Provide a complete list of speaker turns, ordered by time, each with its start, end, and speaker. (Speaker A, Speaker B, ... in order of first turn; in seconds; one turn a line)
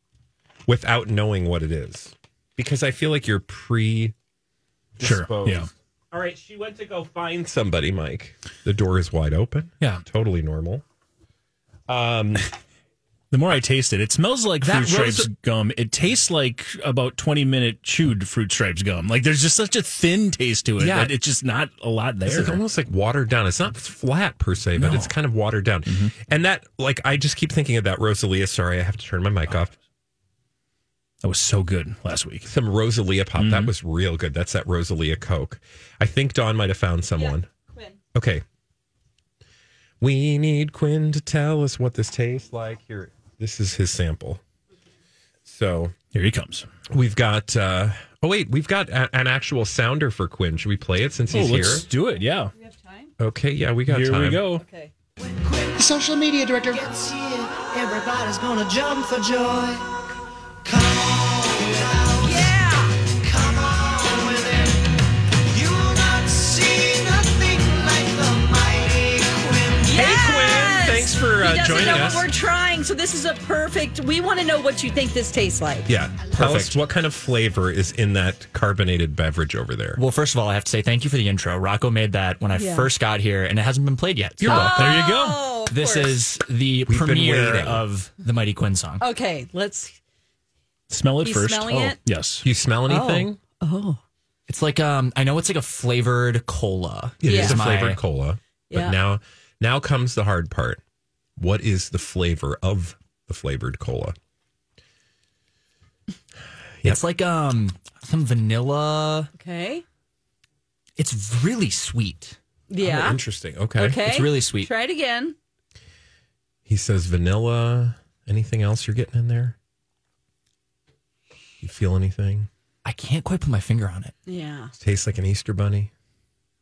Speaker A: 0.7-4.2
Speaker A: 5.0-10.8
Speaker B: 5.0-5.7
Speaker A: 11.9-12.5
Speaker B: 13.3-22.6
Speaker A: 14.6-15.3
Speaker A: 20.8-21.1
Speaker A: 22.2-29.7
Speaker B: 24.8-25.1
Speaker B: 25.9-26.1
Speaker B: 31.2-32.5
Speaker A: 32.5-37.5
Speaker B: 33.4-33.7
Speaker C: 37.2-38.0
Speaker A: 38.1-38.4
Speaker A: 40.0-44.4
Speaker A: 45.5-46.0
Speaker B: 46.1-46.7
Speaker A: 46.9-51.9
Speaker B: 51.3-52.5
Speaker C: 52.6-53.1
Speaker A: 53.2-54.5
Speaker B: 53.9-54.6
Speaker C: 54.6-54.9
Speaker D: 55.2-59.9
Speaker D: 60.6-62.5
Speaker C: 62.2-62.9
Speaker D: 63.2-69.9
Speaker C: 69.8-75.9
Speaker A: 69.9-72.3
Speaker A: 75.9-80.0
Speaker E: 76.4-76.7
Speaker E: 80.0-84.8
Speaker C: 82.5-82.9
Speaker A: 84.4-85.0
Speaker C: 84.4-86.2
Speaker B: 84.6-85.4
Speaker E: 85.7-89.0
Speaker A: 86.9-87.8
Speaker C: 89.0-90.0
Speaker B: 90.9-92.5
Speaker C: 91.2-92.0
Speaker A: 92.4-93.4
Speaker C: 92.9-94.0
Speaker E: 94.5-98.0
Speaker A: 97.2-100.8
Speaker C: 97.2-97.6
Speaker C: 98.7-99.0
Speaker A: 101.4-104.2
Speaker E: 106.8-109.3
Speaker C: 109.4-109.8
Speaker E: 111.0-112.4
Speaker C: 112.7-113.2
Speaker A: 112.8-114.0
Speaker C: 113.8-115.3
Speaker E: 114.0-114.7
Speaker A: 116.7-119.6
Speaker A: 121.6-122.5
Speaker E: 122.8-124.2
Speaker C: 124.3-124.7
Speaker A: 124.8-125.9